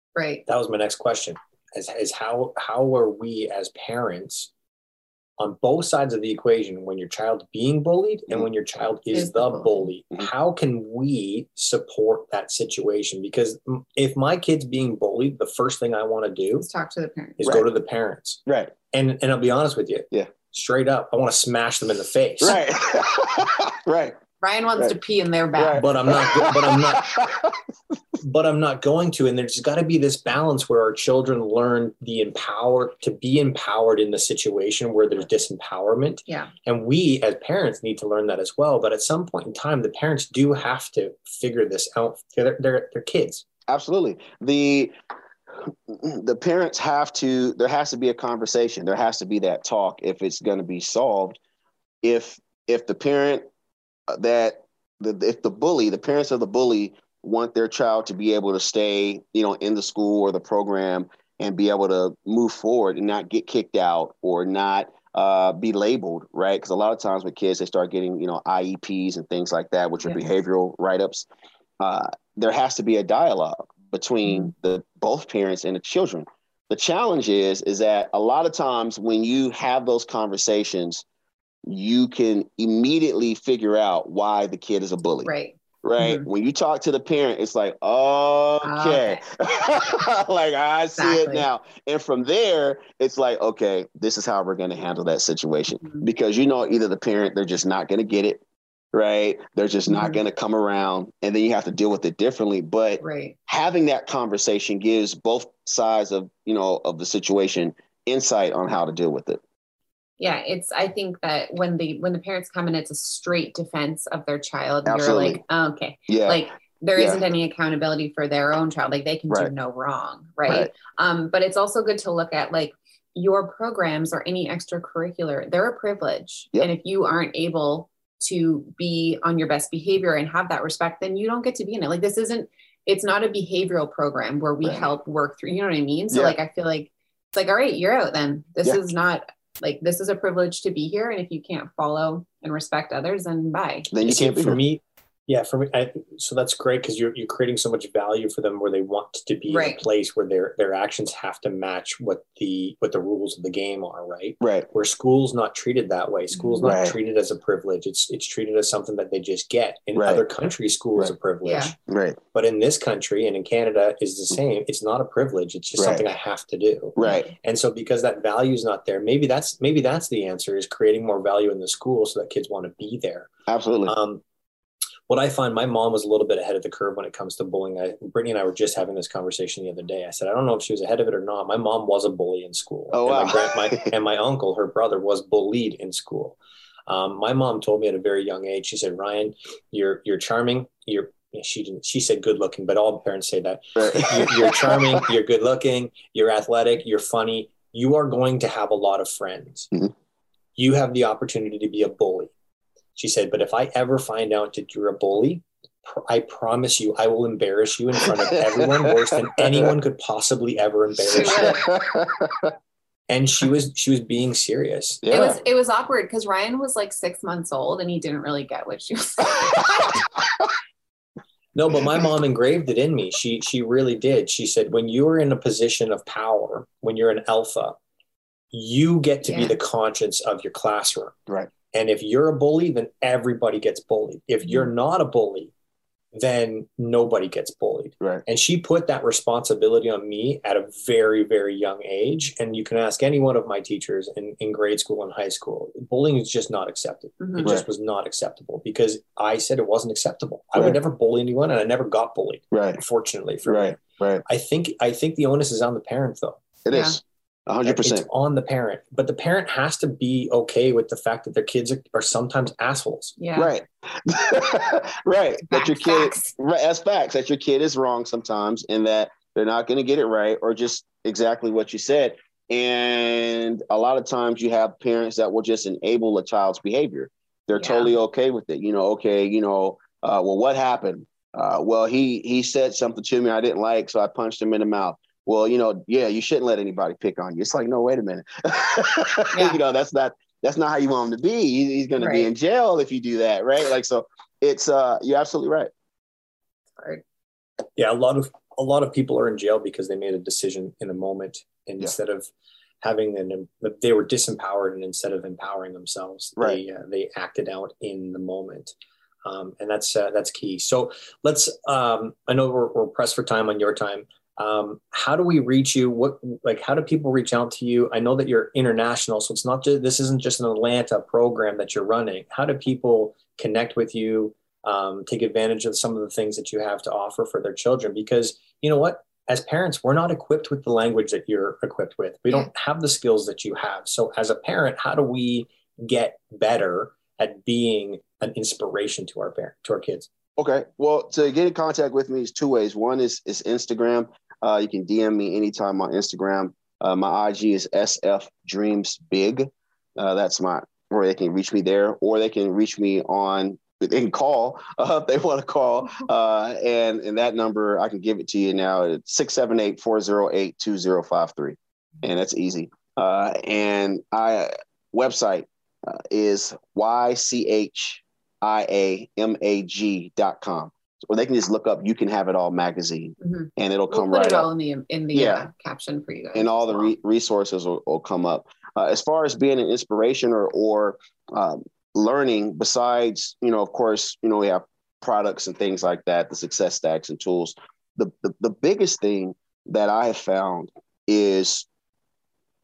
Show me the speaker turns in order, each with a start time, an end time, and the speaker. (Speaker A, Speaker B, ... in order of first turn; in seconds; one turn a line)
Speaker A: 0.2-0.4
Speaker B: 0.5-4.5
Speaker B: 5.4-16.7
Speaker A: 9.1-9.9
Speaker A: 16.6-17.4
Speaker B: 17.4-18.4
Speaker C: 18.5-18.7
Speaker B: 18.9-22.6
Speaker C: 22.4-24.2
Speaker A: 24.4-25.9
Speaker C: 25.6-27.6
Speaker B: 25.8-27.1
Speaker B: 28.2-43.4
Speaker C: 43.7-45.0
Speaker C: 45.6-51.4
Speaker C: 52.0-53.5
Speaker C: 54.1-71.3
Speaker C: 71.8-81.0
Speaker A: 74.3-74.5
Speaker C: 81.7-85.3
Speaker A: 85.2-86.3
Speaker C: 85.8-98.4
Speaker A: 88.6-89.2
Speaker A: 91.0-91.5
Speaker A: 95.8-96.0
Speaker C: 98.9-109.4
Speaker A: 99.9-100.2
Speaker A: 103.0-103.4
Speaker A: 110.2-143.9
Speaker C: 114.9-115.4
Speaker C: 116.1-117.2
Speaker C: 136.1-136.4
Speaker C: 143.9-144.6
Speaker B: 144.0-161.8
Speaker A: 149.5-149.8
Speaker C: 154.4-154.7
Speaker A: 156.3-156.8
Speaker C: 156.6-157.0
Speaker C: 159.9-160.3
Speaker A: 161.4-161.7
Speaker C: 161.9-162.2
Speaker B: 162.3-173.3
Speaker C: 165.8-166.1
Speaker C: 167.0-167.3
Speaker A: 167.0-167.3
Speaker C: 173.5-173.9
Speaker B: 173.9-174.2
Speaker B: 175.1-199.7
Speaker C: 182.9-183.9
Speaker C: 193.8-195.1
Speaker B: 200.6-202.3
Speaker B: 203.0-211.6
Speaker C: 208.0-209.7
Speaker C: 211.1-212.5
Speaker A: 211.1-211.7
Speaker B: 213.1-215.1
Speaker C: 215.0-215.4
Speaker A: 215.1-220.0
Speaker C: 220.2-220.5
Speaker B: 221.6-227.8
Speaker C: 221.7-222.1
Speaker B: 228.5-231.2
Speaker A: 229.2-229.6
Speaker B: 231.7-235.5
Speaker B: 236.1-256.4
Speaker A: 247.2-247.5
Speaker C: 247.4-247.7
Speaker C: 250.6-250.8
Speaker C: 252.5-252.8
Speaker C: 253.5-254.2
Speaker C: 256.6-258.1
Speaker A: 256.7-257.0
Speaker B: 257.6-263.2
Speaker A: 263.2-263.5
Speaker C: 263.4-295.7
Speaker A: 265.5-266.3
Speaker A: 277.6-277.9
Speaker A: 289.3-289.6
Speaker A: 292.0-292.3
Speaker B: 297.8-302.3
Speaker B: 302.8-308.7
Speaker B: 309.2-340.1
Speaker C: 340.4-374.5
Speaker A: 373.2-376.9
Speaker C: 375.1-375.5
Speaker C: 376.3-391.7